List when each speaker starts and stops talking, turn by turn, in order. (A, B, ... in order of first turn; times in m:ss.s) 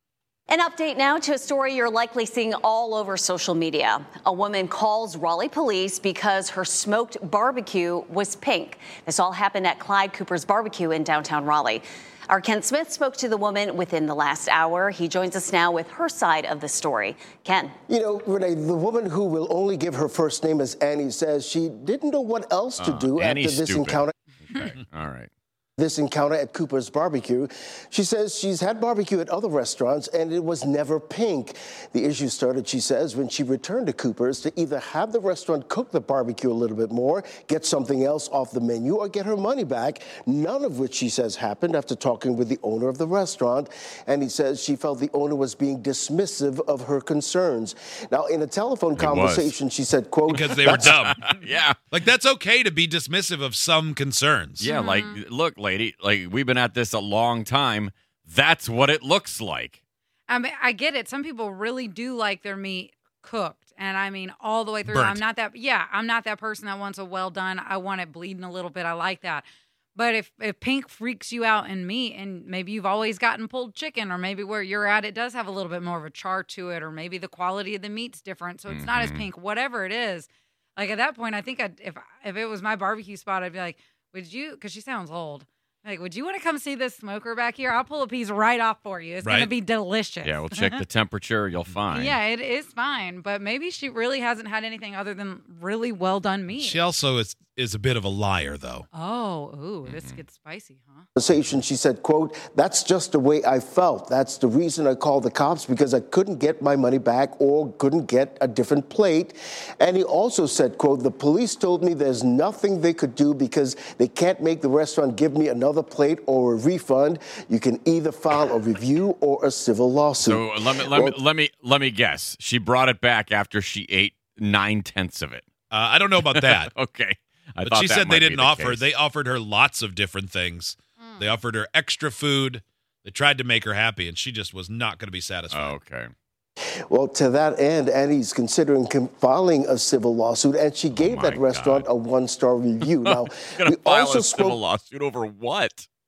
0:00.5-0:17.7 A
0:17.9-0:24.1 B
0:22.8-0:25.3 C
0:25.8-0:51.0 B
0:49.0-0:49.6 C
0:50.3-0:51.8 C
0:50.3-0:51.2 D
0:51.9-0:54.7 D
0:54.6-0:59.8 C
0:54.7-0:55.2 E
1:00.3-1:30.8 E
1:04.9-1:05.2 D
1:18.7-1:19.3 C
1:29.2-1:29.5 D
1:30.2-1:32.2 C
1:31.9-1:36.8 E
1:36.5-1:38.9 D
1:38.9-1:41.0 E
1:39.8-1:40.2 C
1:41.2-2:01.2 B
2:00.2-2:05.4 C
2:05.7-2:06.7 D
2:06.2-2:08.8 C
2:07.6-2:15.8 D
2:11.0-2:11.4 E
2:15.5-2:16.1 C
2:16.9-2:24.6 B
2:21.0-2:21.9 C
2:22.8-2:25.9 C